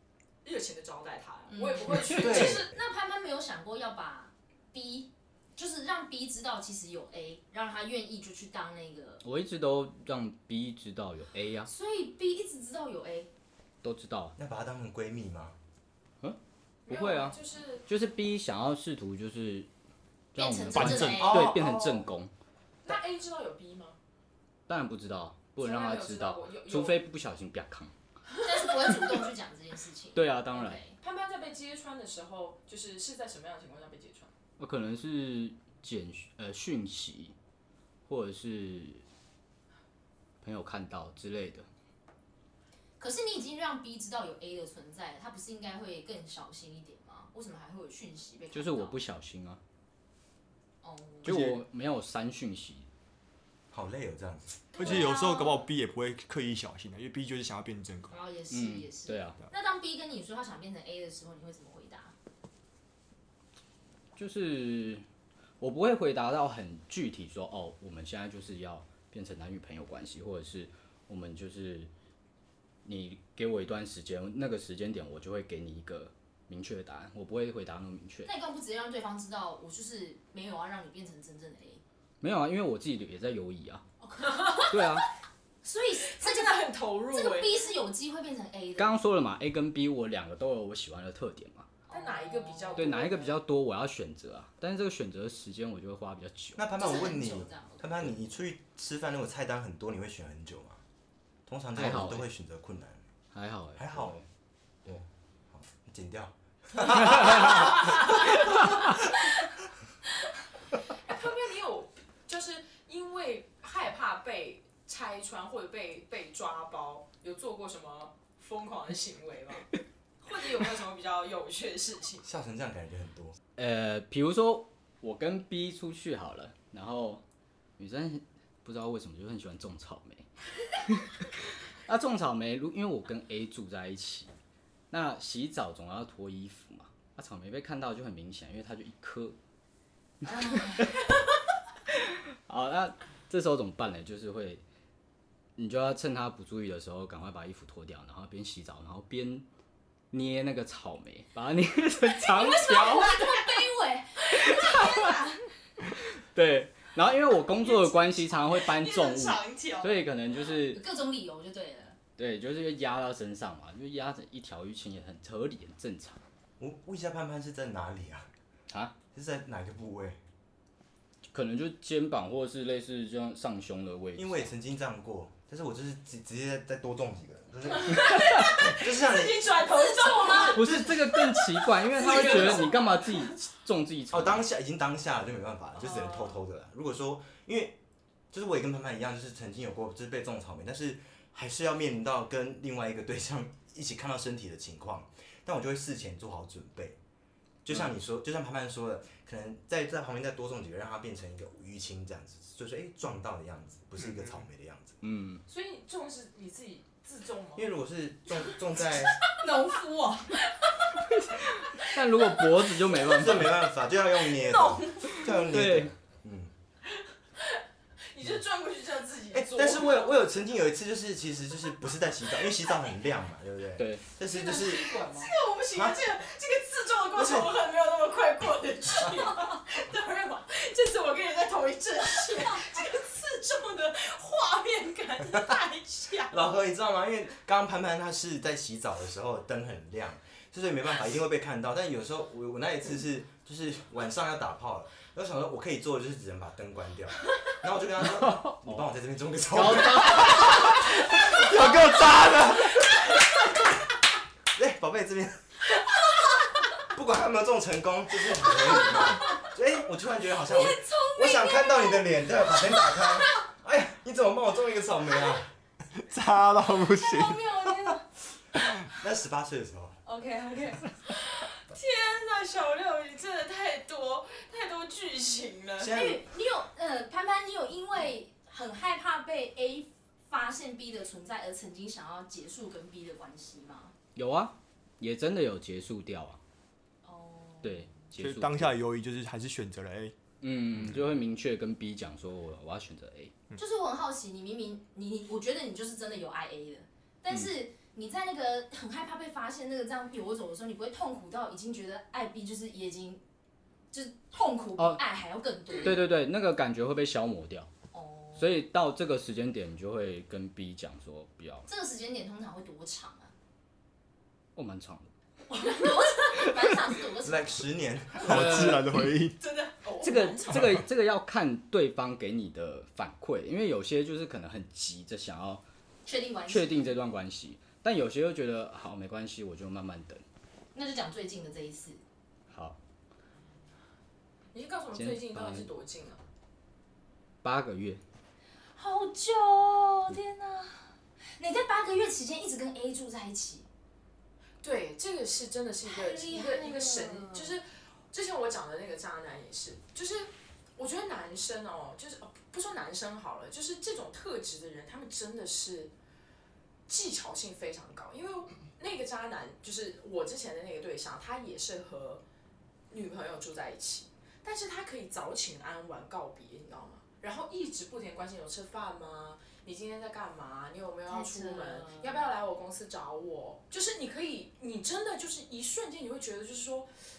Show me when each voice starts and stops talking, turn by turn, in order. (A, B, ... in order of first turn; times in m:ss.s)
0:00.4-0:02.7 A
0:01.5-0:09.2 B
0:02.1-0:02.7 C
0:09.2-0:11.7 D
0:11.7-0:13.3 B
0:13.8-0:14.4 D
0:14.4-0:15.6 C
0:16.2-0:19.7 D
0:16.9-0:17.8 A
0:20.3-0:22.3 D
0:20.4-0:21.4 B
0:20.7-0:21.4 E
0:21.2-0:21.6 C
0:21.3-0:22.1 A
0:22.8-0:24.0 A
0:24.7-0:27.9 D
0:25.6-0:27.0 A
0:28.4-0:31.0 B
0:30.2-0:30.8 D
0:31.0-0:34.3 A
0:34.6-0:37.4 D
0:38.1-0:39.0 D
0:40.4-0:41.7 D
0:43.0-0:49.0 B
0:48.5-0:49.6 D
0:50.8-0:51.4 B
0:51.2-0:52.9 D
0:51.3-0:51.6 E
0:53.7-0:54.5 C
0:54.7-0:55.7 B
0:54.8-0:58.2 E
0:58.1-1:02.1 B
0:58.5-0:59.4 D
1:04.2-1:05.0 D
1:05.6-1:11.9 D
1:12.8-1:18.3 D
1:18.2-1:21.8 B
1:22.2-1:23.8 D
1:24.0-1:24.9 B
1:24.3-1:24.7 A
1:24.7-1:25.1 D
1:25.6-1:29.0 B
1:26.0-1:27.6 A
1:28.8-1:31.7 D
1:31.9-1:33.0 B
1:31.9-1:33.4 A
1:32.8-1:36.6 D
1:36.6-1:40.8 C
1:36.7-1:37.9 B
1:41.5-1:43.0 C
1:41.8-1:42.3 D
1:43.3-1:44.2 D
1:43.8-1:44.2 C
1:44.8-1:48.2 C
1:47.0-1:47.7 D
1:47.5-1:48.2 A
1:50.9-2:02.3 A
2:02.2-2:03.4 C
2:03.6-2:07.2 D
2:07.8-2:11.2 D
2:11.8-2:14.3 D
2:14.9-2:19.4 D
2:20.2-2:21.1 D
2:20.3-2:20.9 B
2:21.9-2:24.6 D
2:25.6-2:29.4 D
2:30.1-2:33.5 D
2:32.2-2:35.4 B
2:34.3-2:35.2 D
2:35.8-2:40.8 D
2:37.6-2:40.1 A
2:40.7-2:42.0 B
2:42.2-2:46.2 D
2:46.6-2:48.3 C
2:48.7-2:49.0 D
2:49.1-2:50.2 C
2:51.3-2:54.5 D
2:54.2-2:59.6 C
2:57.7-3:03.3 A
2:59.7-3:00.6 B
3:00.4-3:04.4 D
3:00.6-3:01.0 C
3:04.1-3:07.8 C
3:05.8-3:06.4 A
3:08.3-3:17.0 C
3:17.6-3:25.0 C
3:25.0-3:25.4 D
3:25.5-3:27.7 A
3:27.6-3:29.3 C
3:29.3-3:29.9 A
3:29.4-3:30.4 B
3:31.2-3:33.6 D
3:32.8-3:33.3 A
3:33.1-3:36.5 C
3:34.4-3:35.3 A
3:35.3-3:35.9 D
3:37.4-3:40.3 A
3:39.3-3:45.1 C
3:43.8-3:44.0 D
3:44.2-3:56.5 A
3:45.7-3:46.0 C
3:47.2-3:47.5 C
3:56.3-4:12.9 C
4:08.2-4:08.9 D
4:09.5-4:12.1 D
4:11.4-4:12.5 E
4:14.5-4:15.6 C
4:16.8-4:25.5 C
4:20.7-4:21.7 A
4:26.0-4:28.0 E
4:27.1-4:28.0 A
4:28.8-4:30.0 C
4:30.0-4:36.0 A
4:35.8-4:36.2 C
4:35.9-4:44.0 B
4:44.2-4:46.4 D
4:47.0-4:47.9 B
4:47.6-4:48.8 D
4:48.2-4:50.2 E
4:50.4-4:53.3 D
4:53.6-5:03.2 B
5:03.9-5:06.0 B
5:05.8-5:07.7 D
5:07.9-5:08.6 B
5:08.4-5:11.7 D
5:11.7-5:13.3 B
5:14.6-5:15.1 D
5:15.5-5:17.6 B
5:17.2-5:18.7 C
5:18.2-5:19.4 E
5:18.3-5:19.0 D
5:19.4-5:20.8 A
5:20.0-5:25.6 D
5:26.1-5:27.0 B
5:26.5-5:30.2 D
5:30.7-5:32.0 B
5:32.5-5:32.8 D
5:34.5-5:36.2 A
5:34.9-5:35.7 D
5:37.4-5:38.0 D
5:38.8-5:43.7 B
5:44.6-5:55.9 A
5:45.8-5:47.6 B
5:56.9-6:02.2 A
6:02.9-6:16.9 A
6:11.1-6:12.3 B